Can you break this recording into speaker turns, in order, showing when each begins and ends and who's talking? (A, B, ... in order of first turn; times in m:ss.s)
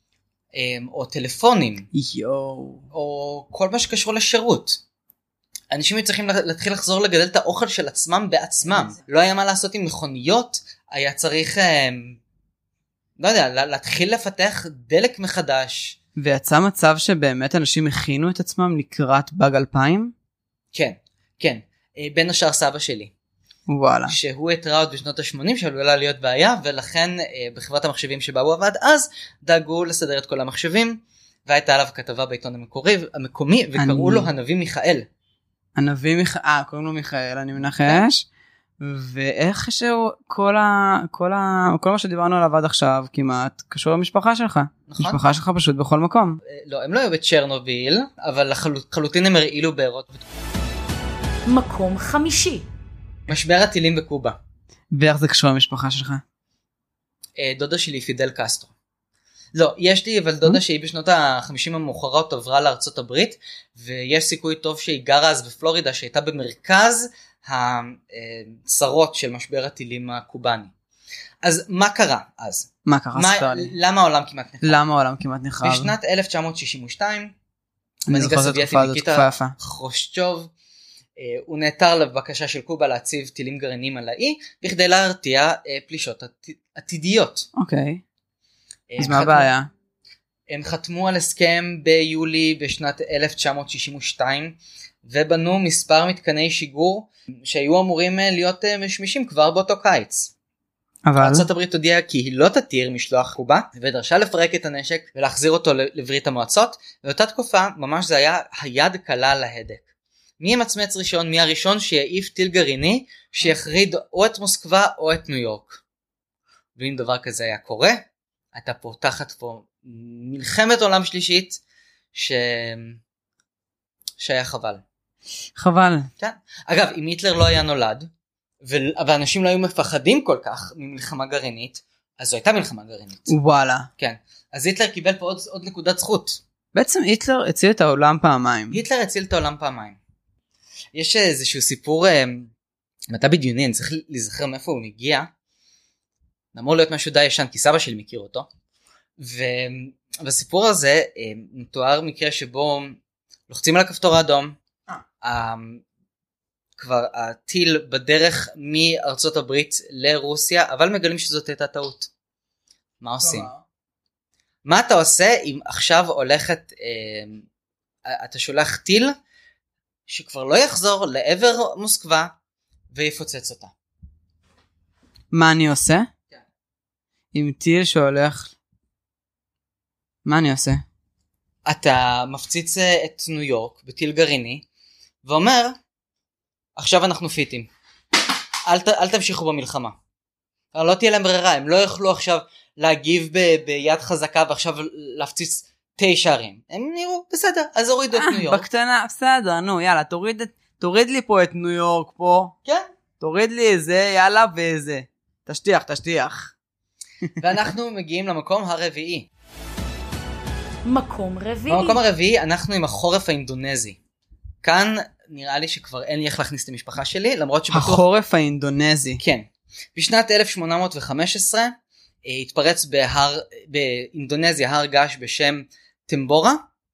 0:00.5-0:01.9 A
0:01.9-0:02.9 B
0:02.9-0:04.8 A
0:05.7-0:12.2 A
0:13.2-0:16.0 A
0:16.2-0:20.1 B
0:20.7-0:23.1 A
0:23.7-0:24.2 B
0:24.1-0:35.1 A
0:33.8-0:34.3 B
0:35.8-0:38.3 B
0:38.8-0:46.4 B
0:44.9-0:45.2 A
0:46.4-0:50.3 A
0:51.5-0:52.7 C
0:53.3-0:54.4 A
0:54.9-0:56.2 B
0:57.4-0:58.7 A
0:59.5-1:10.7 A
1:11.4-1:14.8 A
1:12.8-1:13.7 B
1:14.6-1:15.9 B
1:15.6-1:17.3 A
1:18.1-1:19.6 B
1:18.1-1:20.5 A
1:21.2-1:27.5 A
1:27.6-1:28.0 B
1:28.9-1:29.5 A
1:29.0-1:29.7 B
1:30.5-1:40.3 A
1:41.1-1:41.5 B
1:41.2-1:49.8 A
1:50.4-1:55.8 A
1:56.8-2:01.6 A
2:02.1-2:03.0 A
2:04.2-2:04.8 A
2:05.6-2:06.1 B
2:06.2-2:08.1 A
2:08.6-2:13.3 A
2:13.3-2:13.9 B
2:14.0-2:16.4 A
2:16.7-2:18.8 B
2:18.7-2:20.0 A
2:20.9-2:22.5 A
2:23.1-2:25.3 A
2:26.5-2:28.5 A
2:29.2-2:33.0 A
2:33.5-2:34.6 A
2:35.2-2:35.8 A
2:36.8-2:42.1 A
2:43.0-2:43.5 A
2:43.2-2:43.6 B
2:44.6-2:47.4 A
2:48.1-2:49.2 A
2:50.1-2:52.3 A
2:52.9-2:53.7 A
2:55.3-2:56.1 B
2:57.3-2:58.5 B
3:00.2-3:00.8 B
3:01.7-3:04.6 A
3:05.2-3:05.8 A
3:06.8-3:07.7 A
3:08.7-3:10.0 A
3:10.7-3:18.7 A
3:18.1-3:22.6 B
3:23.2-3:26.5 B
3:27.4-3:29.3 A
3:30.8-3:32.0 C
3:31.7-3:34.0 A
3:34.6-3:38.1 A
3:37.7-3:39.2 B
3:39.2-3:46.6 A